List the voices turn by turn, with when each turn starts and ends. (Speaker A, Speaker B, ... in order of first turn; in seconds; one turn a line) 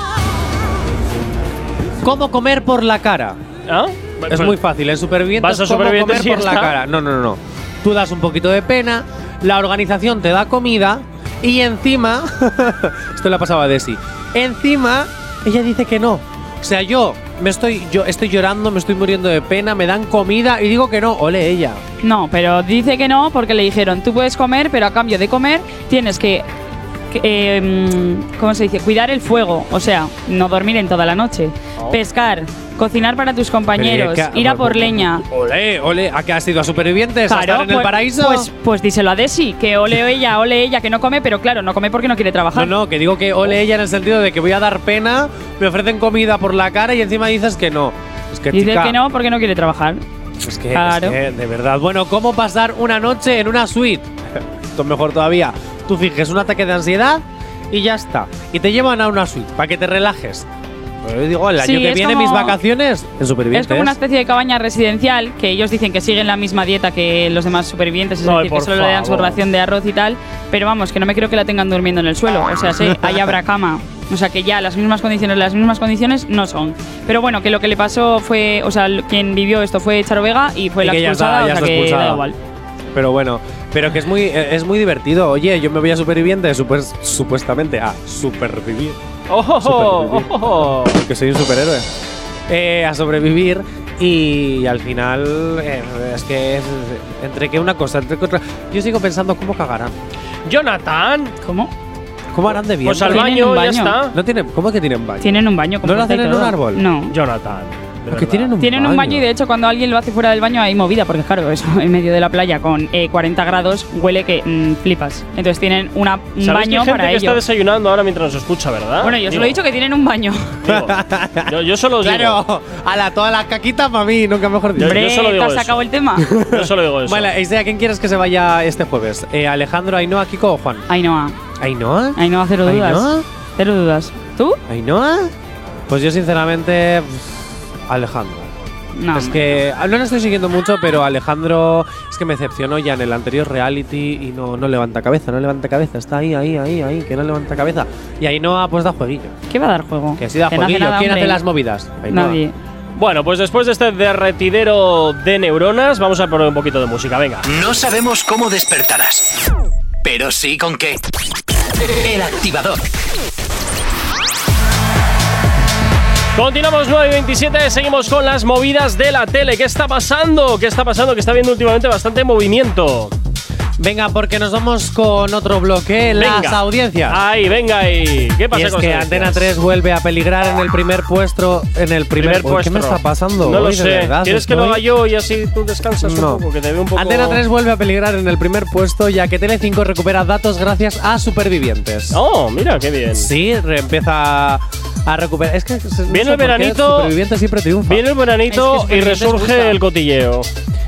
Speaker A: 2.0-3.4
Speaker B: 3.7-4.6
Speaker A: 4.3-21.8
Speaker B: 5.4-6.8
Speaker C: 22.0-26.5
Speaker C: 27.1-35.2
Speaker A: 33.8-38.5
Speaker C: 37.3-42.7
Speaker A: 42.5-49.0
Speaker C: 48.5-50.0
Speaker A: 50.4-60.5
Speaker C: 50.7-51.2
Speaker A: 61.0-64.0
Speaker C: 61.6-62.6
Speaker C: 63.5-82.4
Speaker B: 68.2-69.4
Speaker A: 72.7-73.3
Speaker A: 80.8-82.2
Speaker A: 82.9-89.0
Speaker B: 89.3-91.0
Speaker A: 89.6-91.9
Speaker A: 92.5-100.0
Speaker B: 100.5-101.4
Speaker C: 101.4-101.7
Speaker A: 102.3-103.4
Speaker B: 102.8-104.2
Speaker C: 103.1-104.0
Speaker A: 104.1-106.8
Speaker C: 105.2-107.1
Speaker B: 107.1-108.5
Speaker A: 108.1-109.3
Speaker C: 108.6-117.4
Speaker B: 116.4-119.6
Speaker C: 119.0-120.6
Speaker B: 120.6-122.4
Speaker A: 120.7-125.0
Speaker B: 124.8-127.3
Speaker C: 124.8-126.3
Speaker A: 126.3-130.9
Speaker C: 130.9-131.4
Speaker A: 131.6-133.2
Speaker C: 132.2-134.6
Speaker A: 134.7-135.3
Speaker A: 135.9-138.5
Speaker C: 139.0-139.5
Speaker A: 139.1-149.3
Speaker C: 149.5-151.4
Speaker A: 150.2-152.4
Speaker C: 152.1-152.6
Speaker B: 153.0-157.4
Speaker D: 157.4-159.3
Speaker D: 160.0-161.0
Speaker D: 161.9-162.8
Speaker B: 166.3-173.1
Speaker A: 173.8-177.2
Speaker B: 176.2-179.5
Speaker A: 178.5-184.8
Speaker B: 182.2-187.4
Speaker A: 186.0-186.4
Speaker A: 186.9-192.2
Speaker B: 192.1-193.3
Speaker A: 193.1-198.1
Speaker B: 196.1-197.1
Speaker B: 197.9-200.5
Speaker C: 198.5-199.8